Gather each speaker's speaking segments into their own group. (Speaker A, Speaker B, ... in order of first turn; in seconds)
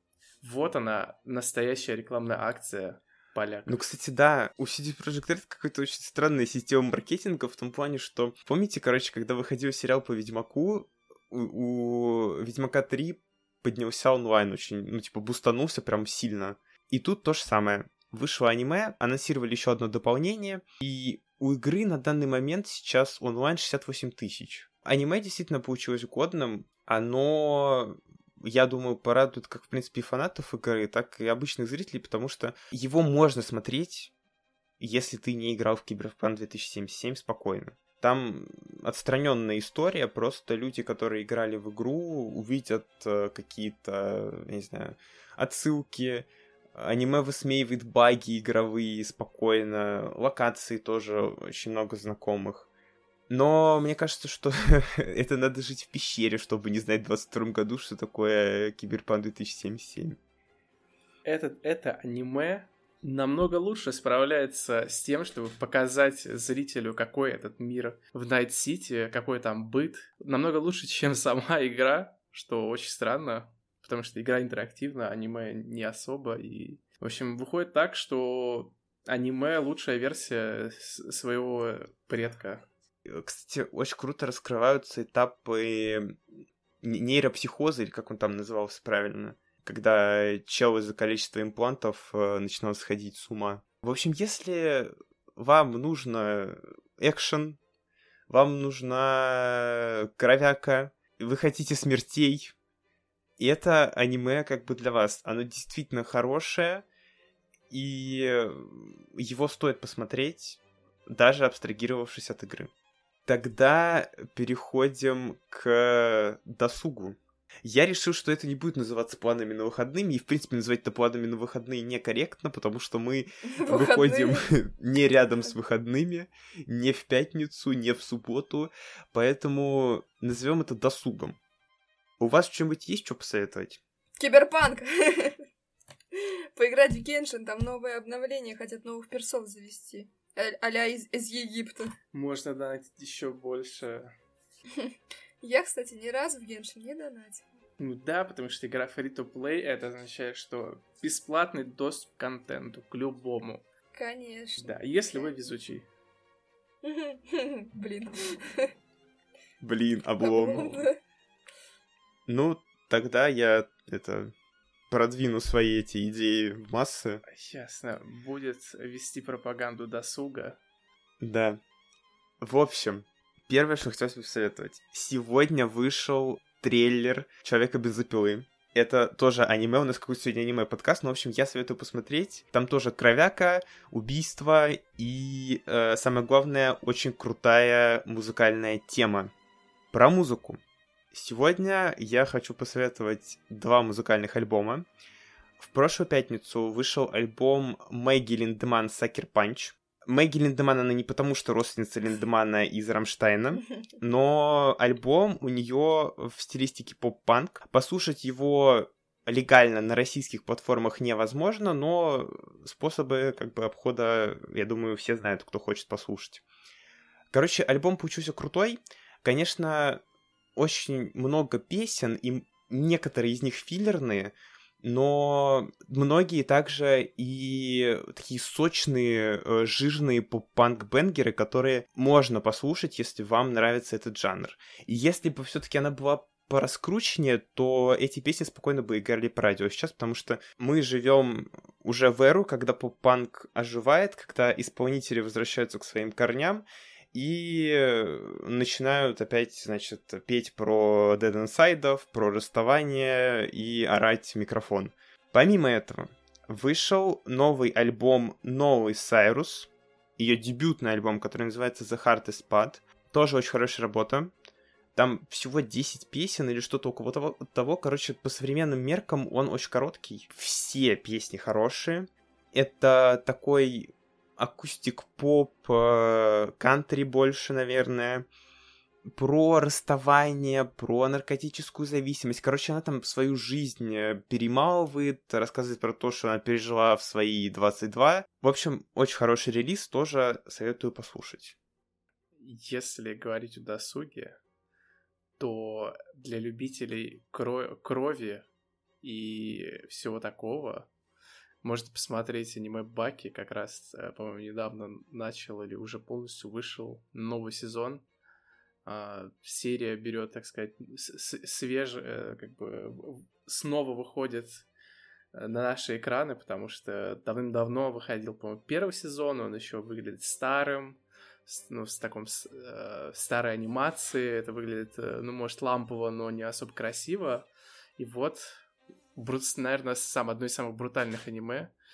Speaker A: 0.4-3.8, 61.2-82.7, 142.1-144.1, 147.8-153.6, 154.6-155.9, 167.3-170.6, 292.4-294.4, 295.4-298.5, 299.0-300.9, 301.6-308.0, 308.9-314.7, 315.3-328.6, 329.2-331.7
Speaker B: 3.7-34.1, 34.8-52.7, 53.3-60.2, 83.1-86.2, 86.8-97.6, 98.3-102.5, 103.4-106.8, 107.7-112.7, 113.3-131.4, 132.2-133.8, 159.6-160.9, 162.3-164.3, 164.9-167.2, 171.2-171.6, 172.4-189.3, 189.9-190.6, 191.1-194.9, 195.6-216.4, 217.3-220.0, 220.6-264.3, 264.9-278.3, 279.1-291.6
Speaker C: 123.5-124.5, 134.2-135.4, 136.2-141.9, 144.7-147.5, 153.9-155.2, 156.8-158.7, 160.2-161.0